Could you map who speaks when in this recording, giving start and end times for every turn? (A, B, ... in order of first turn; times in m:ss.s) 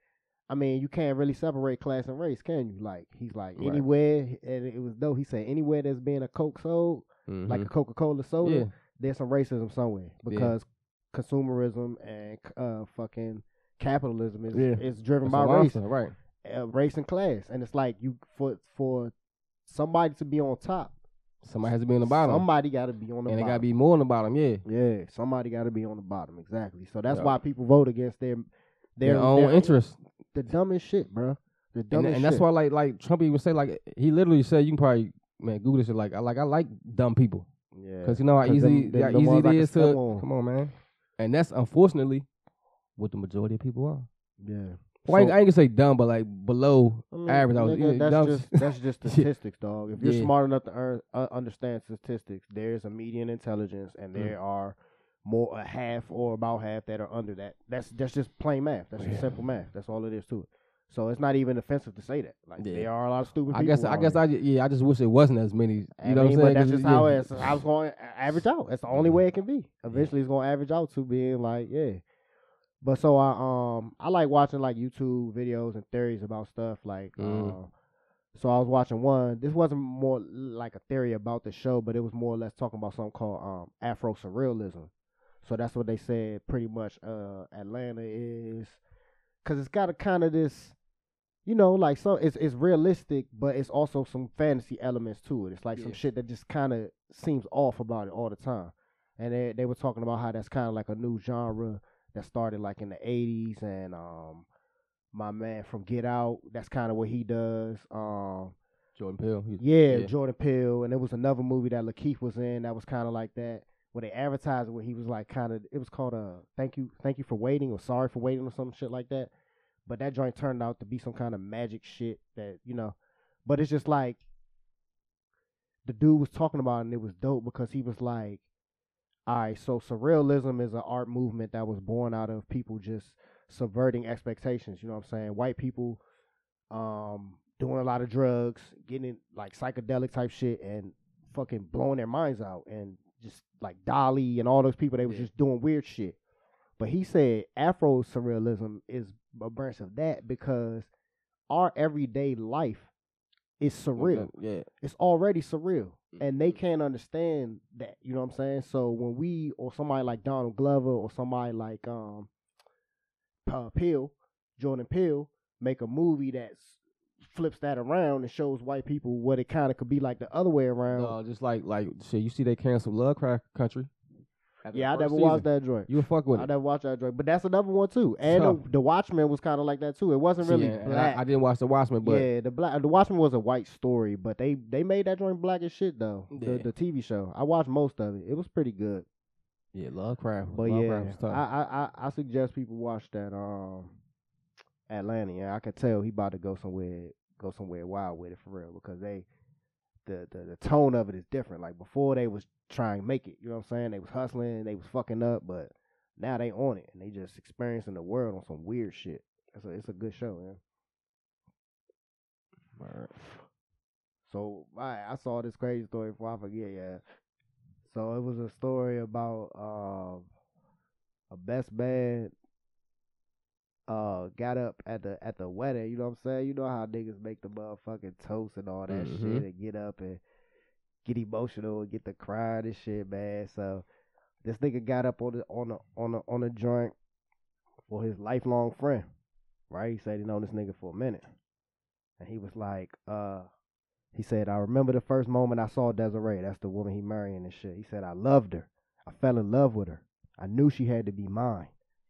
0:00.5-0:15.8 A
0:03.6-0:03.8 B
0:07.3-0:07.7 B
0:08.4-0:08.7 B
0:10.3-0:10.5 B
0:14.5-0:16.1 B
0:16.4-0:19.1 A
0:19.6-0:20.9 A
0:21.4-0:22.4 B
0:22.0-0:23.6 A
0:23.3-0:24.6 B
0:24.6-0:29.8 A
0:27.1-0:27.4 B
0:29.0-0:30.0 B
0:30.3-0:32.4 A
0:31.9-0:37.5 B
0:37.7-0:40.2 A
0:38.0-0:42.2 B
0:43.0-0:44.1 B
0:44.4-0:45.4 A
0:45.1-0:49.3 B
0:47.1-1:04.2 A
0:50.0-0:50.3 B
0:59.0-0:59.4 B
1:02.6-1:02.9 B
1:03.5-1:07.6 B
1:06.0-1:12.0 A
1:08.9-1:09.2 B
1:12.8-1:17.7 A
1:17.2-1:17.6 B
1:18.3-1:24.9 A
1:25.4-1:28.8 A
1:29.4-1:30.7 A
1:31.4-1:44.4 A
1:45.1-1:48.5 A
1:49.0-1:50.1 B
1:49.6-1:59.3 A
1:59.8-2:02.9 A
2:03.4-2:04.2 A
2:05.8-2:08.4 A
2:09.3-2:16.0 A
2:16.7-2:26.2 A
2:26.8-2:30.9 A
2:31.5-2:32.9 A
2:33.6-2:34.3 A
2:34.0-2:34.7 B
2:34.8-2:42.3 A
2:36.1-2:36.5 B
2:43.4-2:51.2 A
2:50.9-2:53.9 B
2:54.6-2:56.5 B
2:54.7-3:01.2 A
2:58.2-2:58.6 B
3:00.4-3:02.3 B
3:02.0-3:09.0 A
3:06.3-3:06.7 B
3:09.7-3:11.4 B
3:10.6-3:13.9 A
3:14.9-3:19.2 A
3:20.0-3:30.6 A
3:32.8-3:33.3 B
3:34.2-3:37.0 A
3:37.8-3:40.2 A
3:41.3-3:42.3 A
3:43.9-3:50.2 A
3:48.9-3:49.4 B
3:51.0-3:53.8 A
3:54.4-3:56.9 A
3:57.9-3:59.1 A
3:59.7-4:01.2 A
4:02.2-4:03.5 A
4:04.1-4:11.7 A